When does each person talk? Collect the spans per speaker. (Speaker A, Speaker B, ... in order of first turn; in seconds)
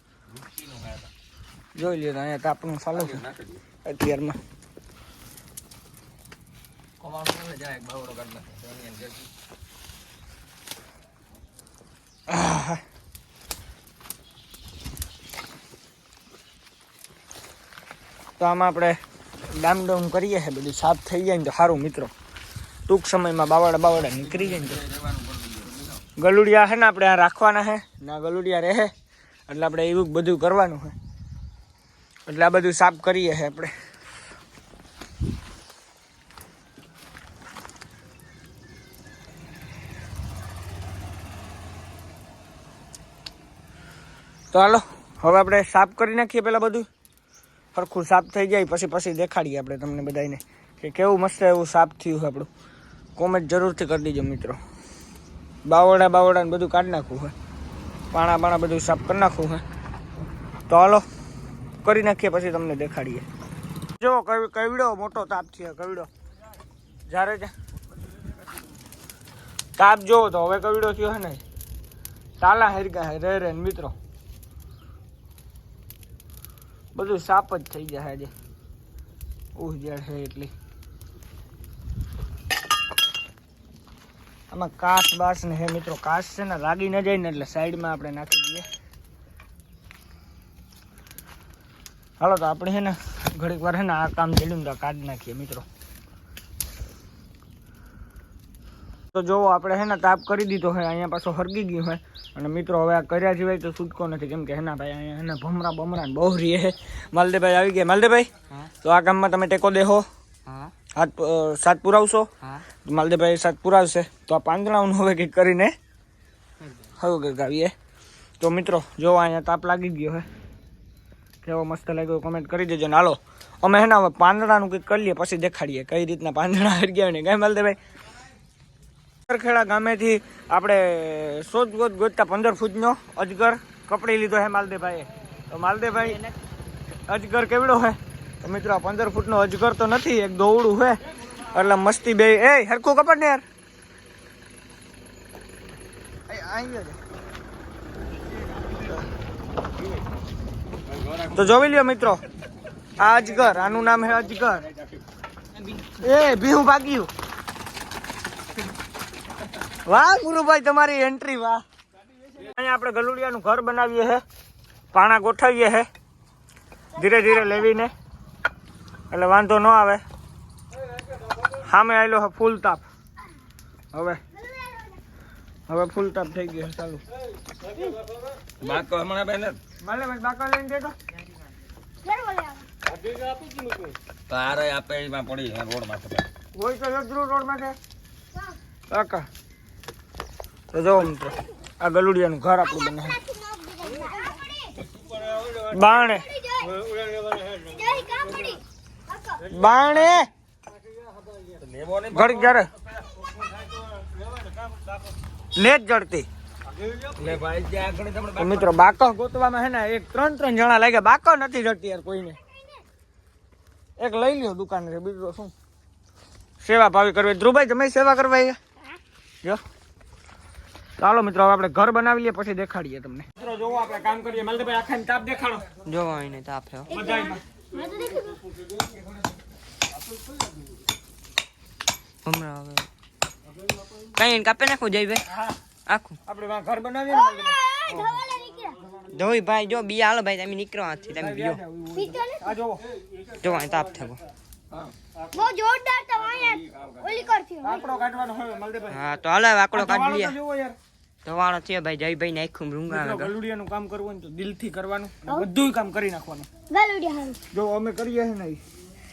Speaker A: 1.8-3.3, 3.9-4.4, 12.3-12.8, 18.4-19.0, 19.5-22.1, 22.9-24.9, 26.2-28.9, 29.5-30.9, 32.3-33.7, 44.5-46.9, 47.8-52.5, 53.2-54.6, 55.7-57.3, 58.1-59.6, 60.7-61.0, 61.8-63.2, 64.0-66.1, 67.1-67.5, 69.8-71.4, 72.4-73.9, 77.0-78.3, 79.6-80.5, 84.5-88.7, 92.2-95.7, 99.1-110.0, 111.0-112.3, 112.8-115.7, 117.0-117.7, 118.4-120.3, 121.4-127.8, 129.3-136.2, 137.1-143.4, 146.3-147.0, 151.3-152.2, 153.0-154.7, 155.9-157.1, 159.9-161.6, 162.4-164.2, 164.9-165.9, 166.9-167.9, 169.1-170.0, 171.6-172.8, 173.9-174.2, 175.7-177.0, 179.8-180.9, 186.6-187.8, 188.9-189.3, 190.7-193.2, 195.6-196.3, 199.4-200.3, 202.1-202.7, 205.6-206.3, 208.4-212.4, 214.0-215.5, 216.6-218.6, 221.0-225.7, 226.9-227.4, 235.3-235.6, 236.3-238.3, 241.2-242.8, 247.6-249.0, 249.7-250.8, 252.9-256.5, 257.5-258.6
Speaker B: 7.0-9.2, 178.6-179.6, 184.3-186.2, 196.9-197.6, 201.5-202.4, 207.0-208.7
Speaker C: 110.5-110.7, 225.8-226.9, 232.3-232.9, 234.2-235.3, 235.9-236.2, 239.1-241.6, 243.4-244.2, 248.9-250.4, 251.2-253.3
Speaker D: 174.4-175.0, 182.0-182.7, 192.9-194.8, 195.9-196.8, 197.6-198.6, 226.9-228.4, 237.1-238.8, 241.9-242.5, 245.3-247.9, 256.7-257.4